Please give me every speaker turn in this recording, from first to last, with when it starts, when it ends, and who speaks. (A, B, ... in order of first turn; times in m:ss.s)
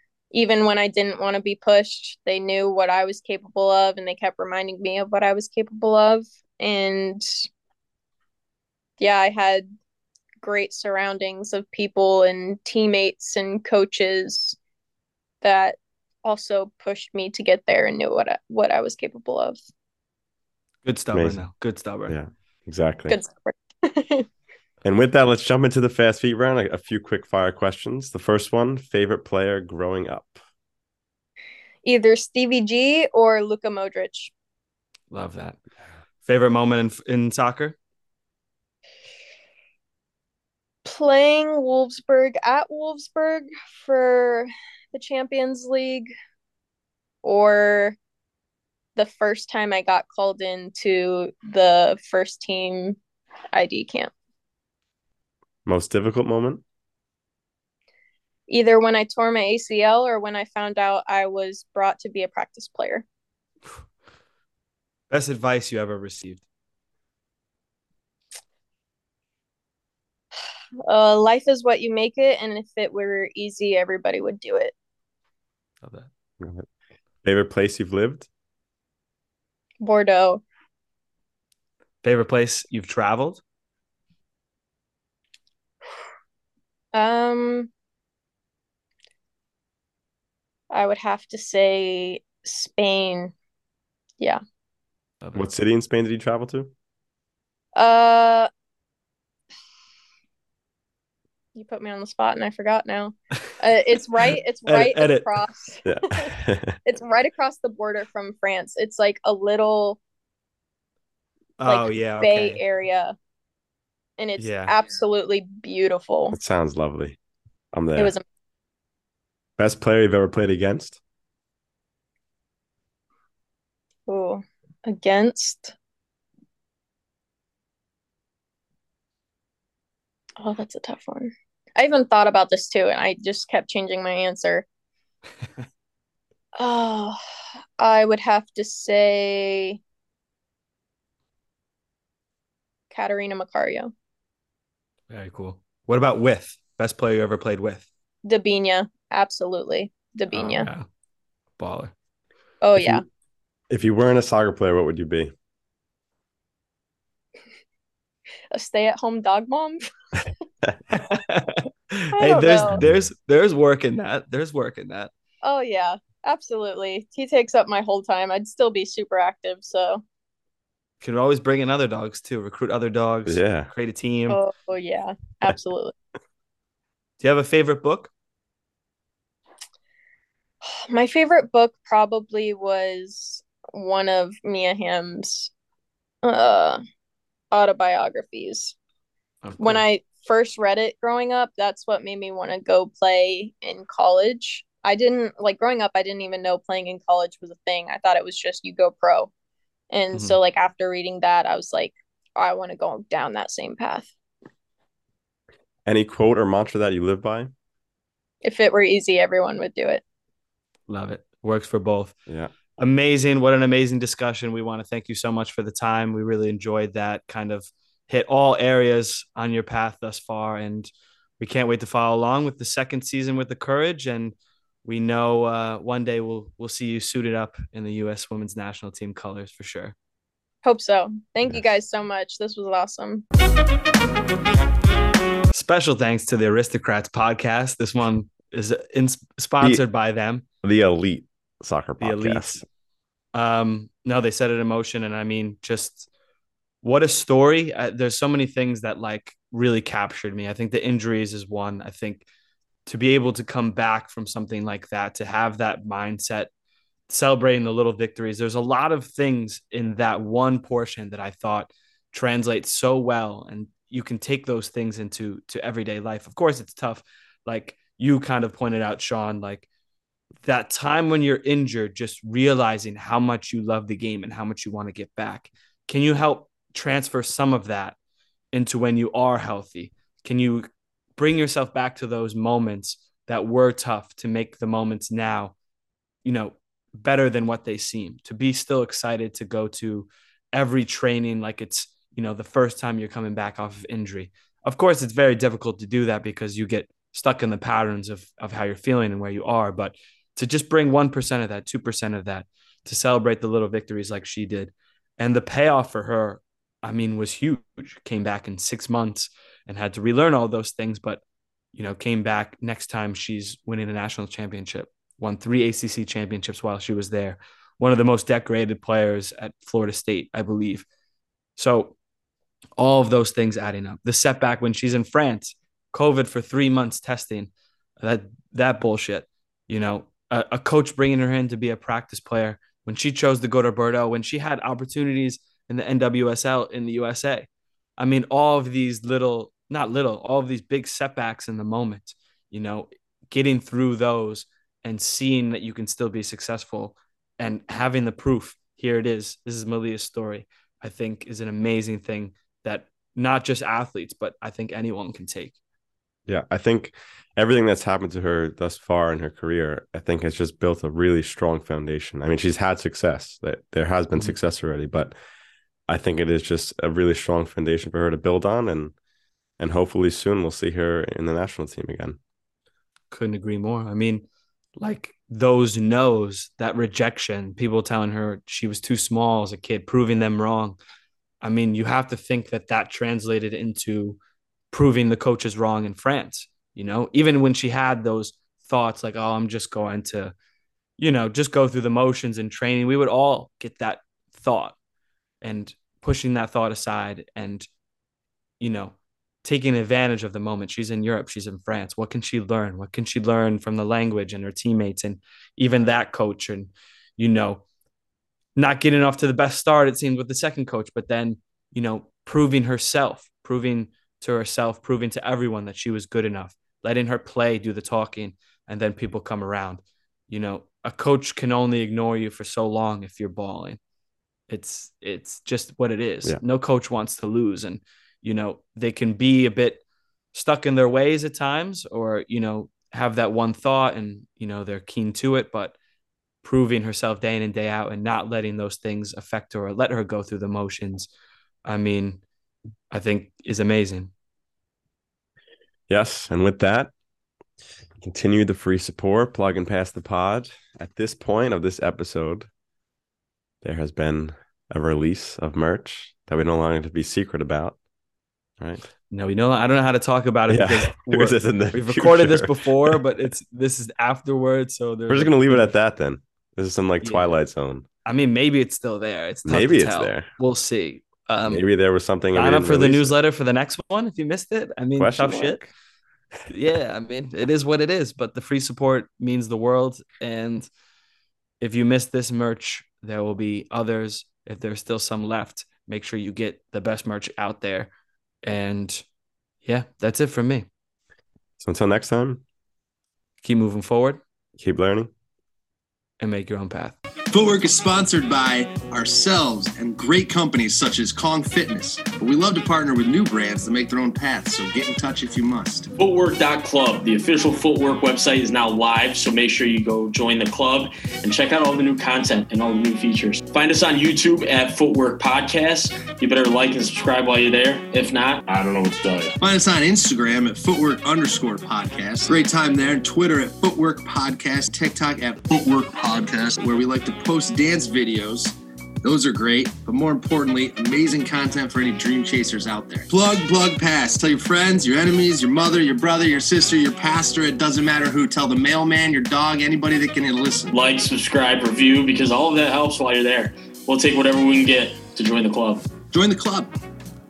0:00.3-0:07.3 A
0:09.0-0:09.7 A
0:10.4-0:14.6 A
0:15.4-0:19.6 A
0:20.8-0:22.2 B
0:21.1-0:21.5 C
0:22.1-0:23.2 C
0:23.1-0:24.3 A
0:24.8-0:30.4 C
0:31.8-0:34.3 A
0:35.1-0:35.6 B
0:36.2-0:37.8 B
0:40.8-0:46.1 A
0:47.2-0:48.0 A
0:49.0-0:53.0 A
0:53.5-0:54.1 A
0:55.7-0:56.6 C
0:58.5-1:03.0 A
1:05.1-1:06.4 B
1:10.8-1:14.7 A
1:15.8-1:16.1 B
1:16.4-1:16.7 C
1:17.2-1:18.3 C
1:19.8-1:20.4 A
1:22.0-1:23.4 B
1:26.9-1:27.7 A
1:30.7-1:33.3 A
1:35.3-1:36.7 C
1:37.8-1:38.5 A
1:41.6-1:46.3 A
1:44.7-1:45.4 B
1:45.8-1:46.8 C
1:46.8-1:50.0 A
1:51.6-1:52.6 B
1:51.7-1:53.2 A
1:54.2-1:56.4 A
1:54.4-1:54.8 B
1:56.3-1:57.2 C
1:57.7-1:58.2 C
1:58.0-1:58.2 A
1:59.6-2:01.0 C
2:04.1-2:05.8 A
2:10.4-2:14.7 A
2:16.6-2:17.2 A
2:17.8-2:19.8 A
2:22.9-2:23.9 A
2:25.1-2:27.9 B
2:28.2-2:30.7 A
2:30.3-2:30.8 B
2:31.6-2:31.9 B
2:32.6-2:33.0 A
2:33.7-2:35.3 C
2:38.5-2:39.8 A
2:40.9-2:45.1 B
2:42.1-2:42.8 A
2:45.4-2:50.0 A
2:51.0-2:54.4 B
2:53.3-2:53.7 C
2:54.3-2:56.0 A
2:57.2-2:58.1 B
3:00.6-3:05.5 A
3:06.2-3:06.8 A
3:07.5-3:08.8 A
3:09.4-3:09.8 B
3:09.6-3:19.3 A
3:19.9-3:24.1 A
3:20.1-3:20.4 B
3:25.9-3:27.5 C
3:28.4-3:30.0 A
3:30.9-3:32.2 B
3:32.8-3:44.3 B
3:44.8-3:50.0 B
3:50.6-3:53.2 A
3:55.5-4:00.4 B
4:00.6-4:02.6 C
4:02.0-4:02.6 B
4:03.3-4:06.1 B
4:06.8-4:12.2 B
4:12.9-4:16.5 B
4:17.1-4:29.7 B
4:30.4-4:38.0 B
4:38.5-4:45.5 B
4:46.2-5:11.2 B
5:11.7-5:20.8 B
5:21.6-5:22.0 B
5:22.8-5:37.5 B
5:38.0-5:55.6 B
5:56.3-6:05.1 C
6:05.9-6:08.9 C
6:09.6-6:12.2 C
6:13.1-6:14.2 B
6:14.8-6:20.8 B
6:21.4-6:24.2 B
6:24.7-6:30.3 B
6:31.0-6:34.8 B
6:35.4-6:37.7 B
6:38.6-6:47.6 B
6:48.6-7:03.8 B
7:04.5-7:09.8 B
7:10.3-7:15.8 B
7:16.4-7:21.1 B
7:21.7-7:22.2 B
7:22.9-7:24.1 B
7:25.9-7:26.9 C
7:28.0-7:32.5 C
7:33.6-7:37.8 C
7:39.1-7:45.7 B
7:40.5-7:43.0 C
7:45.1-7:47.8 C
7:47.0-7:47.3 B
7:48.1-7:51.6 B
7:49.5-7:50.3 C
7:51.5-7:53.1 C
7:52.3-7:55.7 B
7:55.0-7:55.7 C
7:56.5-8:00.7 B
8:01.6-8:07.9 B
8:08.4-8:09.0 B
8:09.6-8:10.7 B
8:11.6-8:12.4 C
8:13.4-8:14.2 B
8:14.6-8:15.1 C
8:16.2-8:17.0 B
8:17.3-8:25.9 D
8:26.0-8:39.3 E
8:39.4-9:00.7 D
9:00.7-9:05.9 E
9:06.1-9:06.7 D